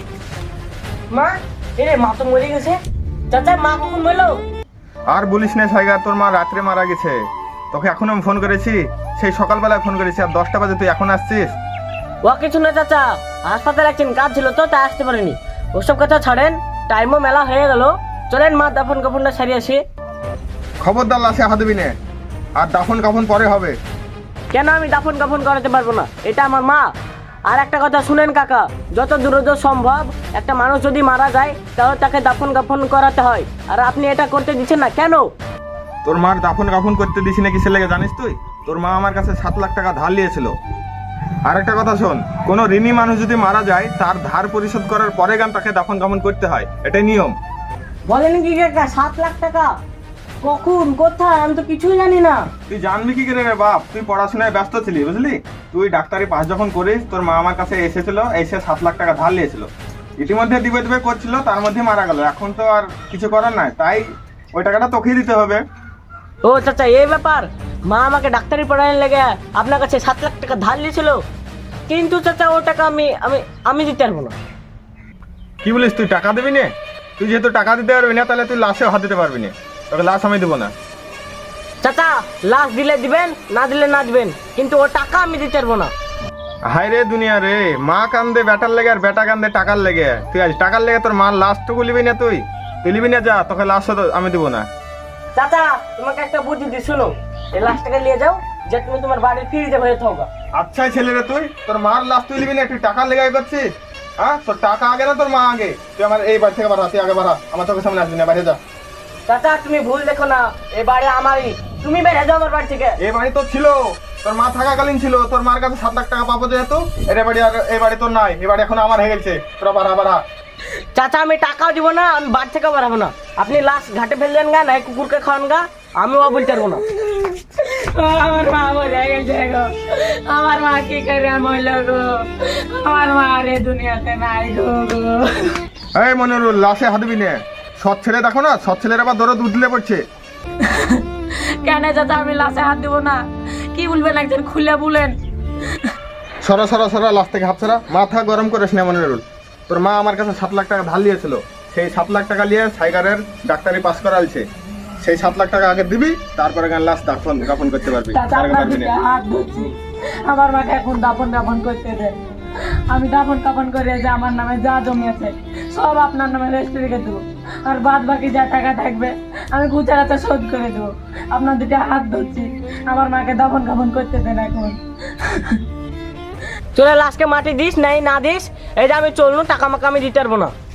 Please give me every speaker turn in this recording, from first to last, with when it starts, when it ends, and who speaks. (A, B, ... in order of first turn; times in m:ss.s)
0:01.1-0:02.8 A
0:03.3-0:04.4 A
0:05.1-0:07.2 B
0:07.7-0:11.6 B
0:12.2-0:19.8 A
0:20.8-0:21.9 B
0:22.6-0:23.8 B
0:24.5-0:26.9 A
0:27.5-0:35.3 A
0:36.0-0:40.5 B
0:41.5-0:47.4 B
0:48.1-0:49.7 A
0:50.4-0:52.4 A
0:52.7-1:05.6 B
1:06.4-1:11.2 A
1:11.9-1:14.3 A
1:15.6-1:20.7 B
1:21.8-1:25.9 A
1:26.7-1:34.7 B
1:35.3-1:40.3 A
1:40.6-1:43.6 B
1:44.2-1:48.6 B
1:49.3-1:53.0 A
1:53.0-2:00.2 B
2:00.9-2:06.8 A
2:07.2-2:15.6 C
2:16.0-2:20.0 B
2:20.6-2:21.0 C
2:21.6-2:25.2 C
2:26.4-2:34.4 B
2:35.0-2:38.9 B
2:38.1-2:42.2 C
2:42.9-2:55.6 C
2:56.7-3:00.5 A